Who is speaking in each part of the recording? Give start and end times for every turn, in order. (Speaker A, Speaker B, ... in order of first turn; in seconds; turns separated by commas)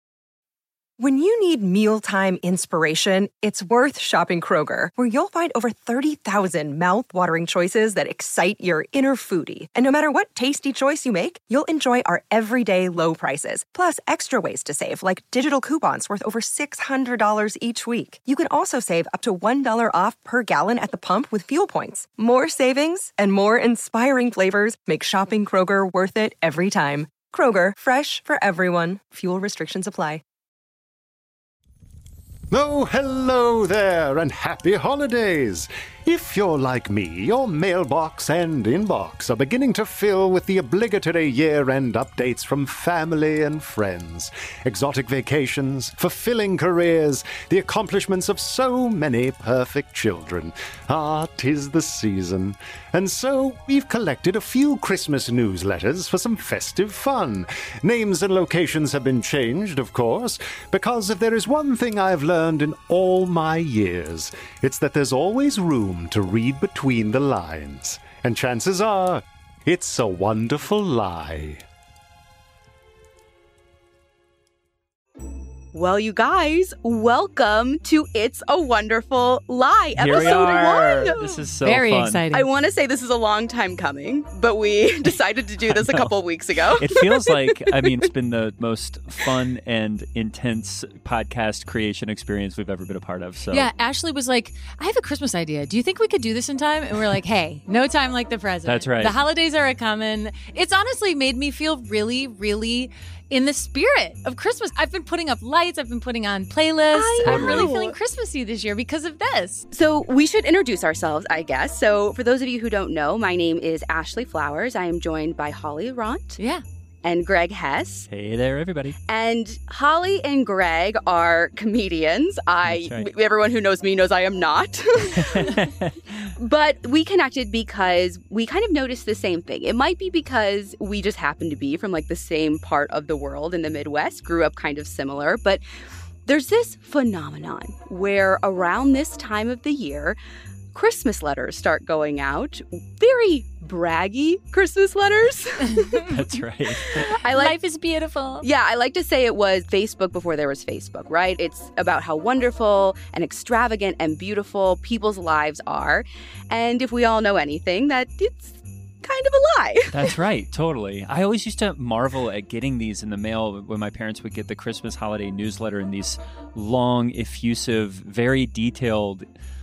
Speaker A: 1.0-30.2, Speaker B: 32.5-71.6, Speaker C: 75.7-81.4, Speaker D: 80.0-82.2, Speaker E: 81.6-82.5, Speaker C: 82.3-88.0, Speaker D: 85.6-86.1, Speaker D: 86.8-93.7, Speaker E: 93.5-109.7, Speaker D: 98.6-99.2, Speaker C: 106.9-107.9, Speaker D: 107.2-107.7, Speaker C: 109.7-116.4, Speaker E: 116.4-116.6, Speaker C: 117.0-118.1, Speaker D: 118.1-119.0, Speaker C: 119.1-125.7, Speaker D: 122.7-123.1, Speaker D: 125.2-125.9, Speaker C: 126.4-135.6, Speaker C: 136.2-140.2, Speaker C: 140.7-146.0, Speaker E: 145.8-146.1, Speaker D: 146.1-147.1, Speaker C: 147.0-147.6, Speaker E: 147.3-148.5, Speaker C: 148.4-160.2, Speaker D: 159.9-169.2